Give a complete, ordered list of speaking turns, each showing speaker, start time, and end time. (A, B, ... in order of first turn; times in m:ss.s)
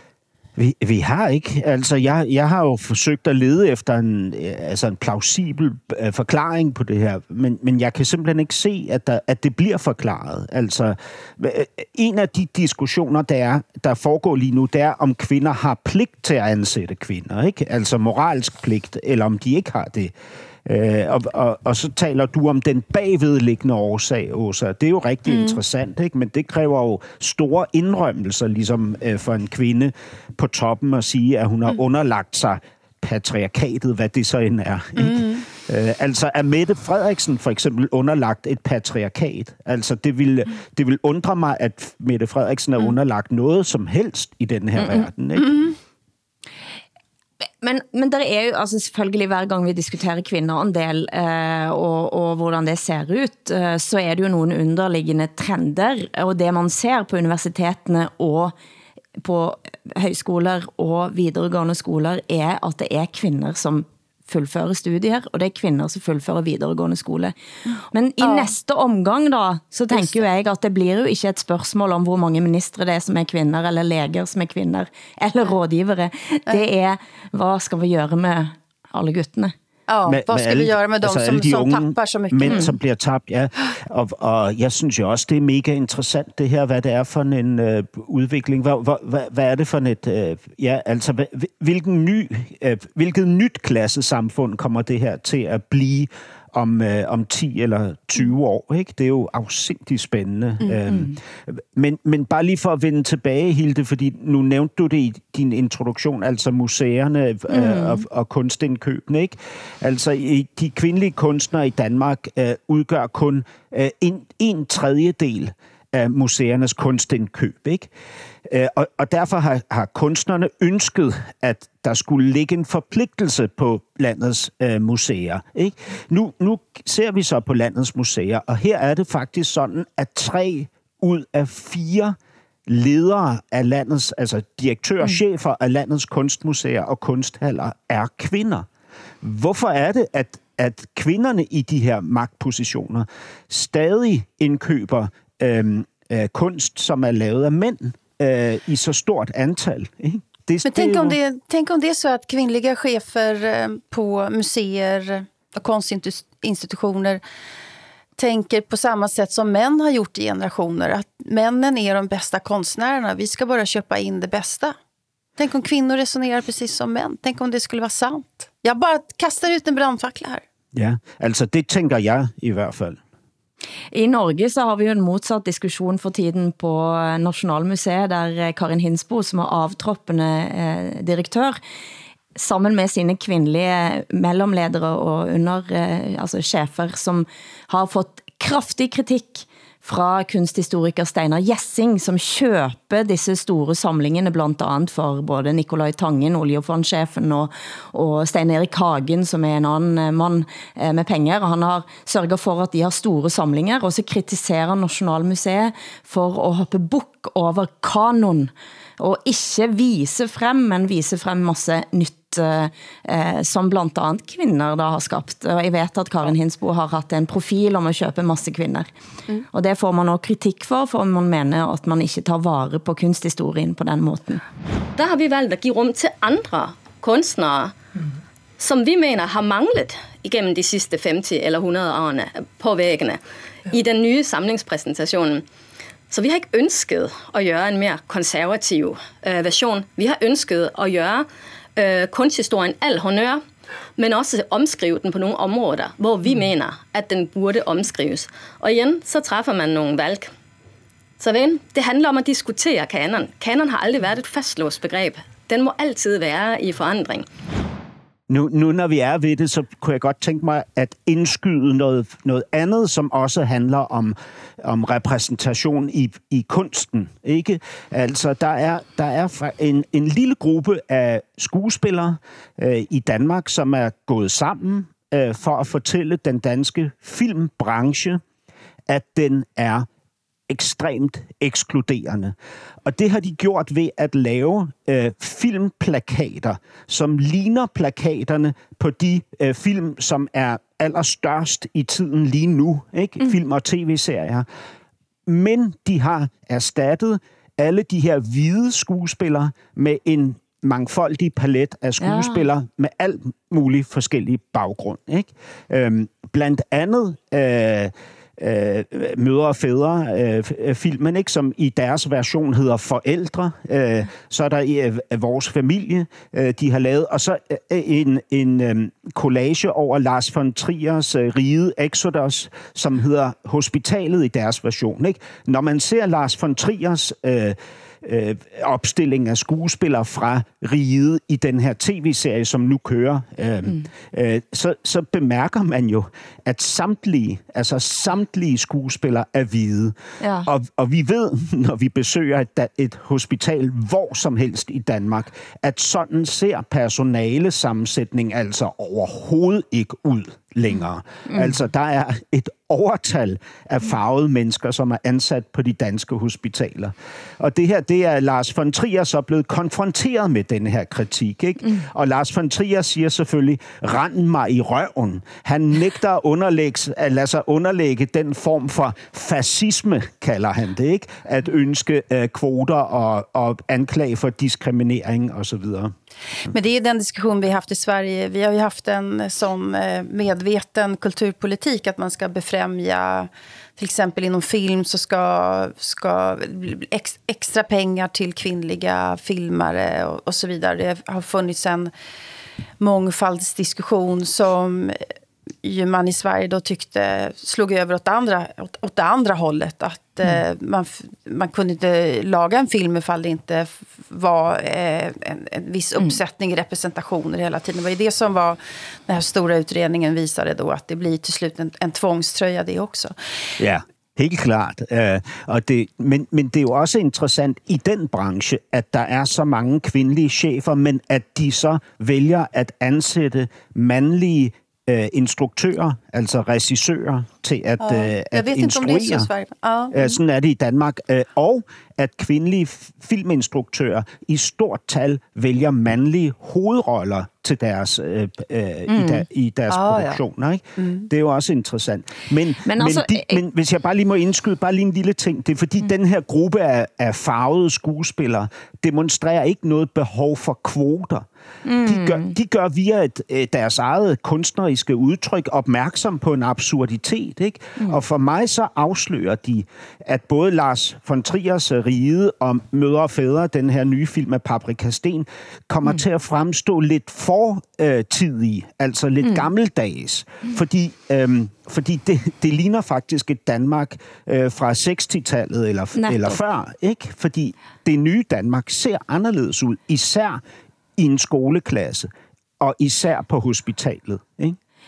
0:00.6-0:20.1 A
0:20.6-0:45.5 A
0:35.0-0:35.4 B
0:44.8-0:45.1 C
0:45.4-0:45.7 B
0:47.6-0:58.5 C
0:59.2-1:07.3 C
1:07.9-1:19.5 C
1:08.2-1:08.5 B
1:09.9-1:10.2 B
1:19.9-1:22.7 B
1:20.1-1:57.9 A
1:22.5-1:22.7 C
1:47.5-1:48.0 C
1:58.5-2:12.2 A
2:12.7-2:18.7 A
2:19.2-2:31.2 A
2:30.6-2:37.2 B
2:38.2-2:44.7 B
2:45.4-2:50.4 B
2:50.7-2:53.0 A
2:53.9-3:01.6 C
3:02.4-3:38.9 C
3:39.5-3:44.4 C
3:45.0-3:47.8 D
3:48.6-3:55.4 D
3:56.1-4:03.4 D
4:04.0-4:10.3 D
4:11.2-4:17.2 D
4:18.3-4:38.2 A
4:38.9-4:39.9 A
4:40.5-4:54.4 A
4:55.3-6:15.9 A
5:02.0-5:02.5 C
5:40.2-5:40.5 C
5:51.3-5:51.5 C
6:16.5-6:31.9 B
6:32.8-6:35.0 B
6:35.6-6:53.1 B
6:53.6-7:09.3 A
7:07.8-7:10.0 B
7:09.9-7:31.2 A
7:18.9-7:19.2 C
7:19.7-7:20.2 B
7:20.8-7:21.1 B
7:22.6-7:23.4 C
7:31.6-7:32.3 C
7:31.8-8:00.4 A
7:56.0-7:56.4 C
8:01.0-8:02.1 A
8:02.6-8:04.6 A